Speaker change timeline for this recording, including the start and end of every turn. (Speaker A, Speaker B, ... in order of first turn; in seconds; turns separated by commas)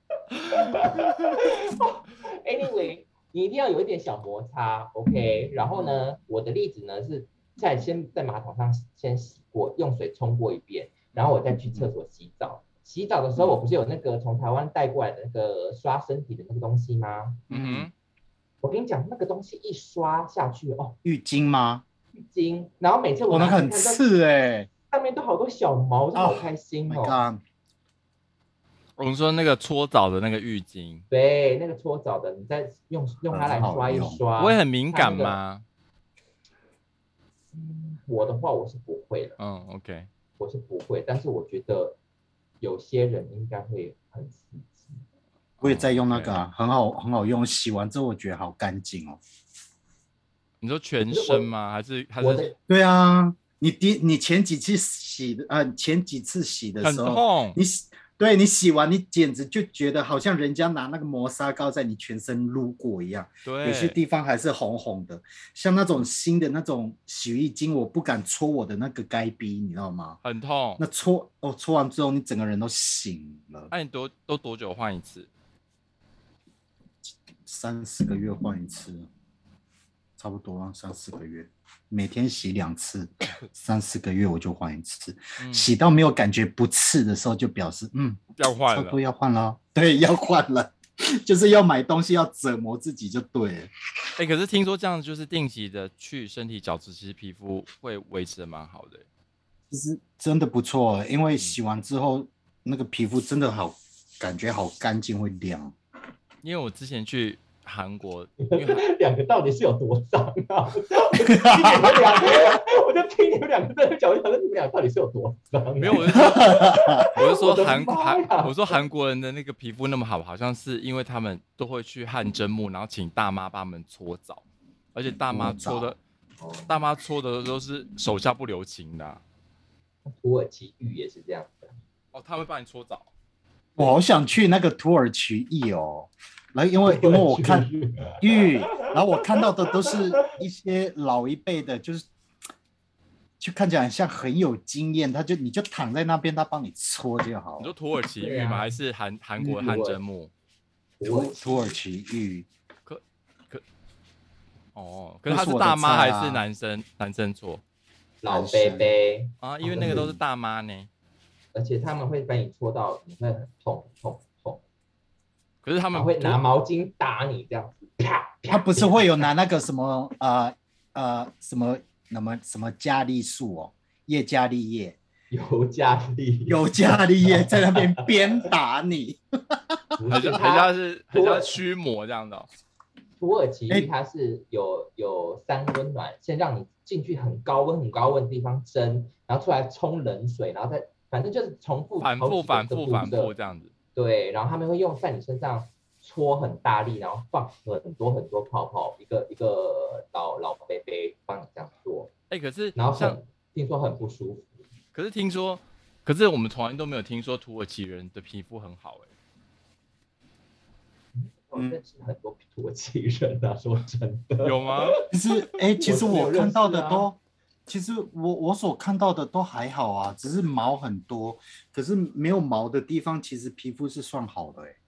Speaker A: 0.4-17.4, Speaker B: 17.5-17.9, Speaker C: 17.5-17.9, Speaker A: 18.6-20.9, Speaker C: 21.0-21.8, Speaker A: 22.3-24.0, Speaker C: 23.3-24.7, Speaker A: 24.9-27.2, Speaker C: 26.1-27.4, Speaker B: 29.0-31.0, Speaker A: 31.1-35.4, Speaker C: 33.3-34.2, Speaker B: 34.4-35.6, Speaker A: 37.5-39.4, Speaker B: 39.4-40.1, Speaker A: 40.4-42.0, Speaker A: 42.6-45.0, Speaker B: 45.6-46.4, Speaker C: 45.6-49.2, Speaker B: 50.6-52.5, Speaker A: 51.1-51.5, Speaker A: 52.2-52.5, Speaker C: 52.7-70.2, Speaker B: 56.8-57.6, Speaker B: 63.4-64.0, Speaker B: 70.2-70.8, Speaker C: 70.8-73.7, Speaker B: 73.7-75.3, Speaker C: 77.5-79.1, Speaker C: 80.2-93.7, Speaker B: 85.4-85.7, Speaker B: 88.4-89.0, Speaker B: 94.2-99.0, Speaker C: 99.7-105.7, Speaker B: 106.4-108.8, Speaker A: 108.4-118.8, Speaker C: 111.4-112.2, Speaker B: 115.8-126.0, Speaker C: 116.1-117.1, Speaker C: 125.2-125.9, Speaker A: 126.4-126.8, Speaker B: 126.7-129.2, Speaker A: 130.1-131.8, Speaker B: 132.1-133.1, Speaker C: 133.8-137.7, Speaker A: 136.8-140.3, Speaker C: 138.2-142.1, Speaker C: 143.4-147.7, Speaker B: 147.6-150.3, Speaker A: 148.2-148.8, Speaker A: 149.4-150.0, Speaker A: 151.0-151.8, Speaker C: 151.0-152.5, Speaker B: 152.9-153.6, Speaker B: 154.8-157.6, Speaker C: 155.3-156.4, Speaker A: 158.2-160.1, Speaker C: 158.3-158.9, Speaker B: 159.4-160.9, Speaker C: 159.7-160.2, Speaker A: 161.5-164.6, Speaker B: 165.6-166.4, Speaker A: 165.9-169.3, Speaker C: 168.5-175.0, Speaker A: 175.3-178.5, Speaker C: 176.5-179.9, Speaker A: 179.9-181.6, Speaker B: 180.1-182.5, Speaker A: 183.2-193.3, Speaker B: 192.0-193.7, Speaker A: 193.9-202.1, Speaker B: 202.3-203.2, Speaker A: 202.8-204.6, Speaker B: 204.9-209.1, Speaker A: 211.1-214.9, Speaker B: 214.4-214.9, Speaker C: 215.1-224.8, Speaker A: 215.8-217.1